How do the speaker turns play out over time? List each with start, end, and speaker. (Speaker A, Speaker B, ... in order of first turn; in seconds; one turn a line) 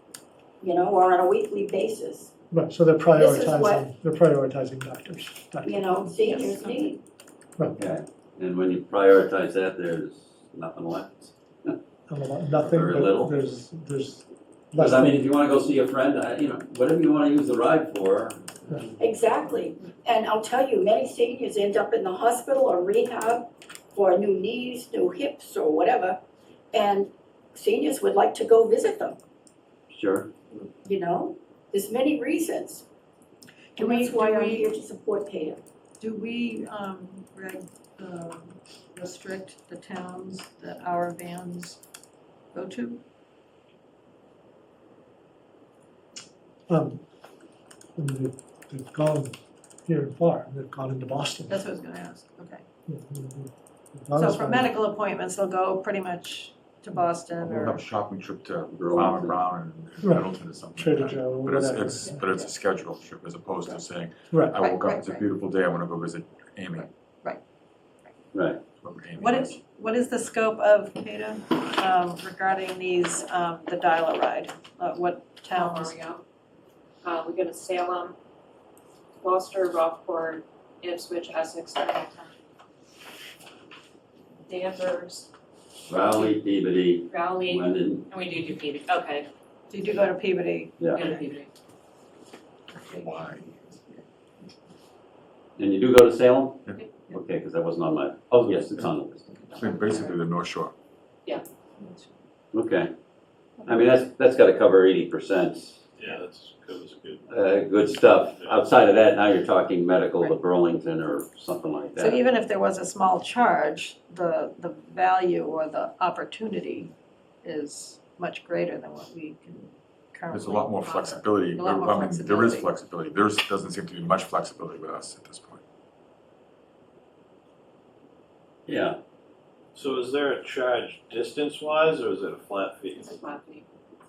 Speaker A: 0.6-2.3
Speaker B: 2.5-6.1
Speaker A: 3.1-3.9
Speaker A: 5.6-7.0
Speaker C: 6.2-6.9
Speaker D: 7.8-11.7
Speaker B: 12.1-15.2
Speaker D: 12.6-13.4
Speaker D: 14.7-18.9
Speaker A: 19.0-26.2
Speaker A: 26.7-29.2
Speaker D: 29.9-30.3
Speaker A: 30.8-32.8
Speaker C: 33.8-34.7
Speaker A: 33.8-35.6
Speaker C: 36.0-41.8
Speaker C: 42.5-43.0
Speaker B: 46.7-47.0
Speaker B: 48.0-51.6
Speaker C: 51.5-52.6
Speaker B: 52.9-54.7
Speaker C: 54.1-57.8
Speaker E: 57.4-66.9
Speaker D: 58.7-59.4
Speaker B: 60.0-62.3
Speaker B: 64.3-64.6
Speaker C: 64.5-65.2
Speaker C: 66.8-67.4
Speaker D: 68.3-68.6
Speaker E: 68.8-69.6
Speaker C: 69.2-76.0
Speaker F: 75.5-76.2
Speaker F: 77.0-78.2
Speaker F: 79.2-82.3
Speaker F: 84.4-85.3
Speaker D: 85.9-88.0
Speaker F: 87.1-89.3
Speaker C: 89.7-91.3
Speaker F: 90.9-91.5
Speaker E: 92.8-93.8
Speaker D: 95.6-99.4
Speaker E: 98.4-98.9
Speaker F: 99.5-100.2
Speaker E: 99.5-100.7
Speaker C: 101.8-102.1
Speaker D: 102.5-102.9
Speaker D: 103.7-105.8
Speaker G: 106.0-107.2
Speaker D: 107.3-112.2
Speaker G: 108.1-108.7
Speaker C: 112.0-122.7
Speaker E: 120.3-125.6
Speaker D: 128.7-129.0
Speaker G: 129.7-133.2
Speaker F: 133.0-133.6